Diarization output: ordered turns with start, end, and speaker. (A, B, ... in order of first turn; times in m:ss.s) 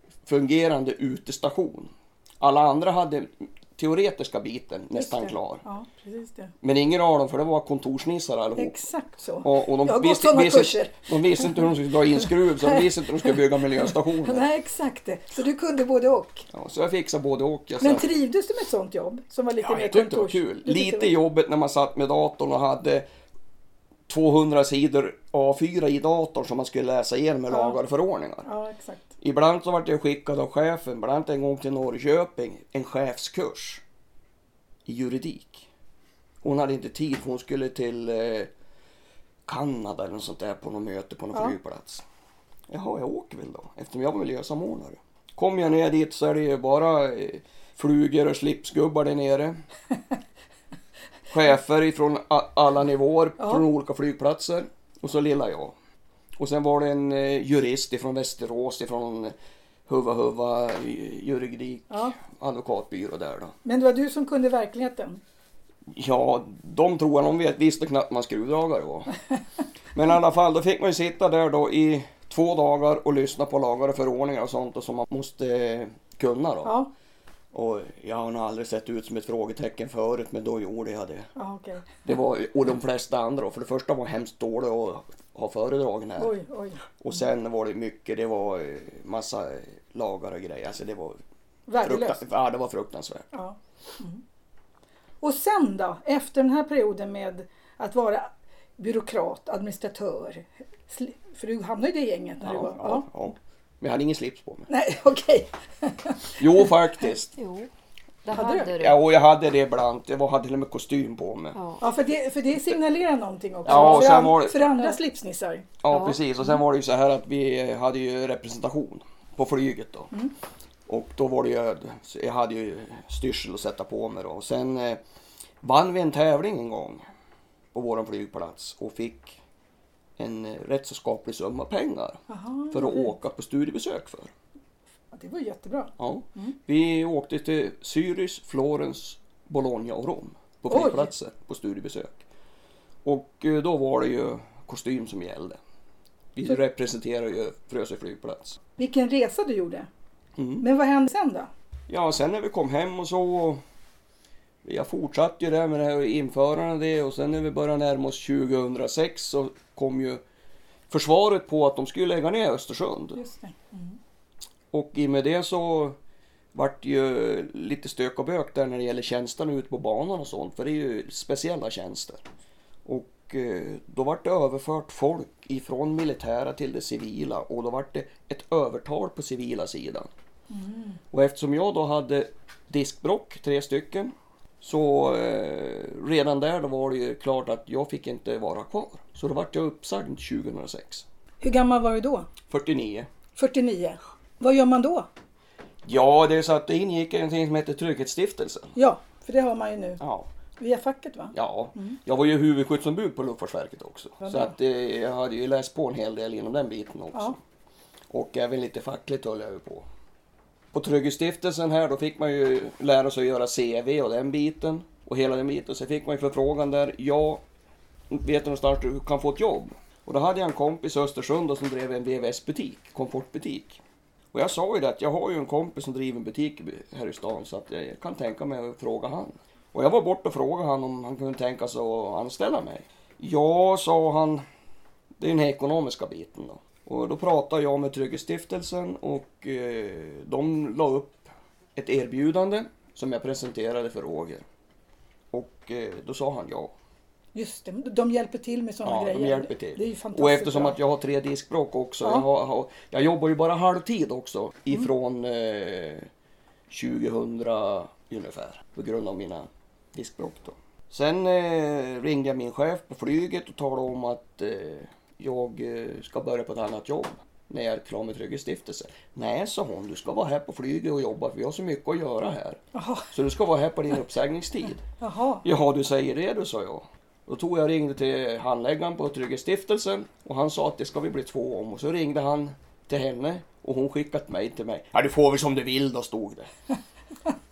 0:00.2-0:05.6 A
0:04.9-0:06.5 B
0:06.6-0:08.8 A
0:08.6-0:16.5 B
0:09.4-0:14.4 A
0:16.5-0:18.0 A
0:17.8-0:21.1 B
0:19.6-0:23.1 A
0:24.1-0:28.5 A
0:27.5-0:27.8 B
0:28.4-0:29.1 B
0:29.2-0:33.8 A
0:34.9-0:35.7 A
0:36.4-0:38.5 A
0:39.4-0:42.0 A
0:42.7-0:49.6 A
0:51.3-0:55.7 A
0:56.4-0:59.3 A
0:59.9-1:03.6 A
1:01.9-1:02.2 B
1:03.6-1:05.2 B
1:05.9-1:09.1 A
1:09.9-1:16.8 A
1:16.6-1:16.9 B
1:17.5-1:21.3 A
1:21.4-1:22.0 B
1:22.0-1:26.3 A
1:26.2-1:26.9 B
1:27.0-1:31.2 A
1:31.7-1:32.2 B
1:31.8-1:33.3 A
1:33.3-1:34.2 B
1:35.2-1:43.1 B
1:42.4-1:44.7 A
1:44.7-1:46.7 B
1:46.4-1:47.4 A
1:47.4-1:47.7 C
1:48.2-1:49.0 C
1:48.3-1:48.7 B
1:48.8-1:51.6 A
1:51.6-1:51.8 C
1:51.8-1:55.7 B
1:53.6-1:54.7 A
1:53.7-1:54.2 C
1:55.8-2:00.1 A
1:55.9-1:56.2 C
2:00.9-2:05.0 A
2:05.6-2:07.0 A
2:07.7-2:09.4 A
2:10.2-2:14.3 A
2:12.3-2:13.1 B
2:15.1-2:16.6 B
2:16.0-2:22.2 A
2:20.7-2:21.1 B
2:23.0-2:25.6 A
2:26.3-2:28.6 A
2:28.8-2:29.9 B
2:30.4-2:30.6 A
2:30.6-2:31.5 B
2:31.9-2:33.6 A
2:34.6-2:40.2 A
2:40.9-2:43.2 A
2:43.2-2:44.0 B
2:44.7-2:46.0 A
2:46.5-2:52.2 A
2:52.8-3:00.1 A
3:00.5-3:01.0 B
3:01.1-3:11.0 A
3:11.4-3:12.3 B
3:12.5-3:13.1 A
3:13.4-3:15.1 B
3:15.8-3:18.7 A
3:18.8-3:20.0 B
3:20.0-3:20.3 A
3:20.6-3:22.0 B
3:21.3-3:27.4 A
3:24.2-3:24.5 B
3:28.1-3:29.9 A
3:30.7-3:37.4 A
3:38.1-3:43.8 A
3:44.3-3:54.4 A
3:55.2-4:04.4 A
4:05.3-4:06.7 A
4:07.4-4:10.8 B
4:08.8-4:16.1 A
4:16.7-4:32.6 A
4:32.7-4:33.1 B
4:33.1-4:34.8 A
4:35.0-4:35.4 B
4:35.4-4:46.5 A